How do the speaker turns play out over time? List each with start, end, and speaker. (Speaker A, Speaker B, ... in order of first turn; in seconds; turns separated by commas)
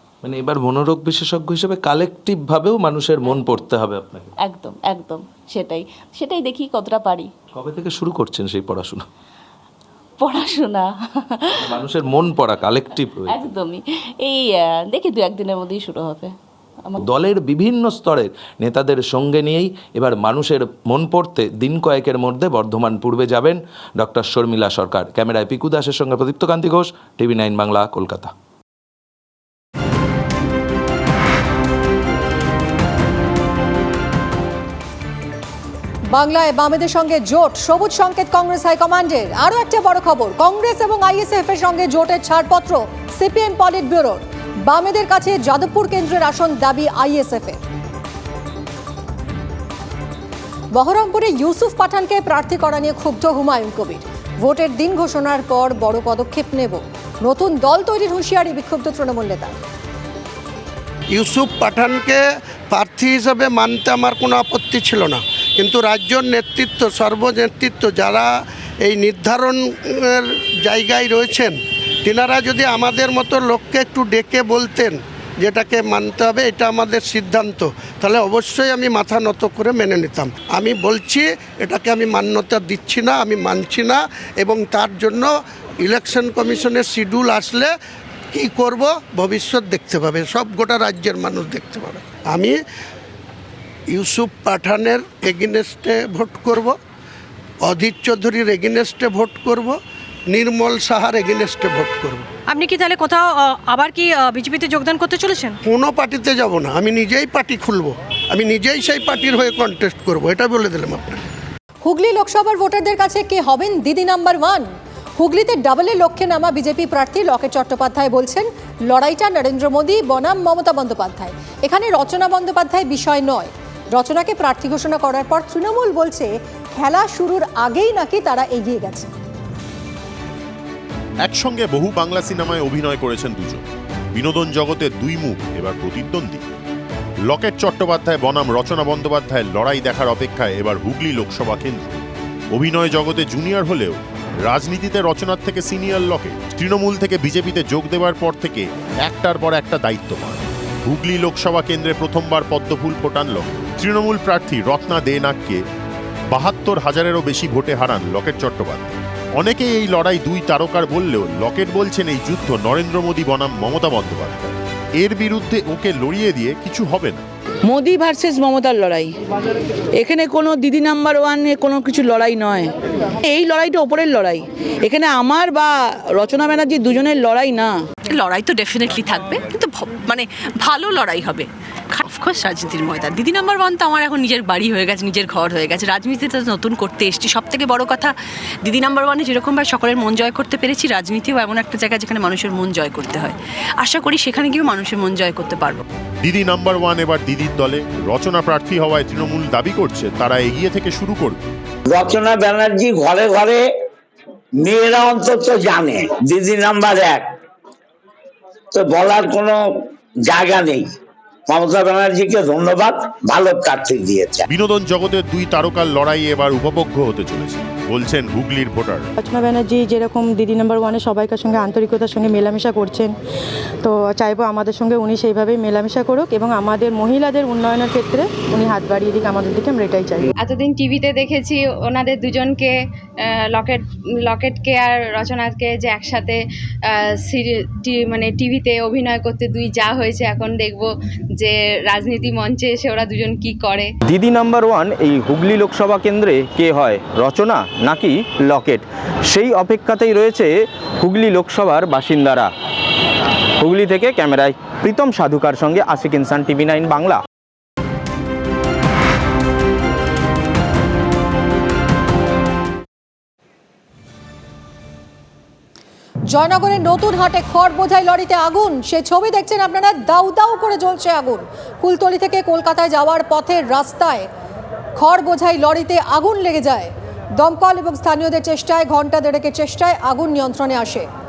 Speaker A: 0.2-4.3, Speaker B: 4.4-7.3, Speaker A: 7.5-9.1, Speaker B: 10.2-11.7, Speaker A: 11.6-13.4, Speaker B: 13.3-16.3, Speaker A: 17.0-28.3, Speaker C: 36.1-47.6, Speaker C: 50.7-59.5, Speaker D: 61.1-68.3, Speaker D: 68.8-87.7, Speaker D: 88.3-92.6, Speaker D: 93.9-96.8, Speaker D: 97.6-99.8, Speaker D: 100.3-102.2, Speaker E: 102.5-105.5, Speaker D: 105.6-111.2, Speaker C: 111.8-114.7, Speaker C: 115.2-129.1, Speaker F: 131.2-136.4, Speaker F: 137.2-142.0, Speaker F: 142.5-155.6, Speaker F: 156.3-167.2, Speaker G: 167.8-169.0, Speaker G: 170.1-172.6, Speaker G: 173.4-174.4, Speaker G: 174.9-175.7, Speaker G: 176.2-177.7, Speaker H: 178.1-188.1, Speaker H: 188.6-195.8, Speaker F: 196.2-201.4, Speaker I: 201.9-203.6, Speaker I: 204.6-207.3, Speaker I: 208.7-209.6, Speaker I: 210.3-210.9, Speaker I: 211.5-214.4, Speaker F: 214.5-219.1, Speaker J: 219.2-223.1, Speaker J: 223.8-230.3, Speaker K: 230.4-243.9, Speaker L: 244.0-252.5, Speaker L: 253.6-257.2, Speaker C: 266.3-274.3, Speaker C: 274.9-281.1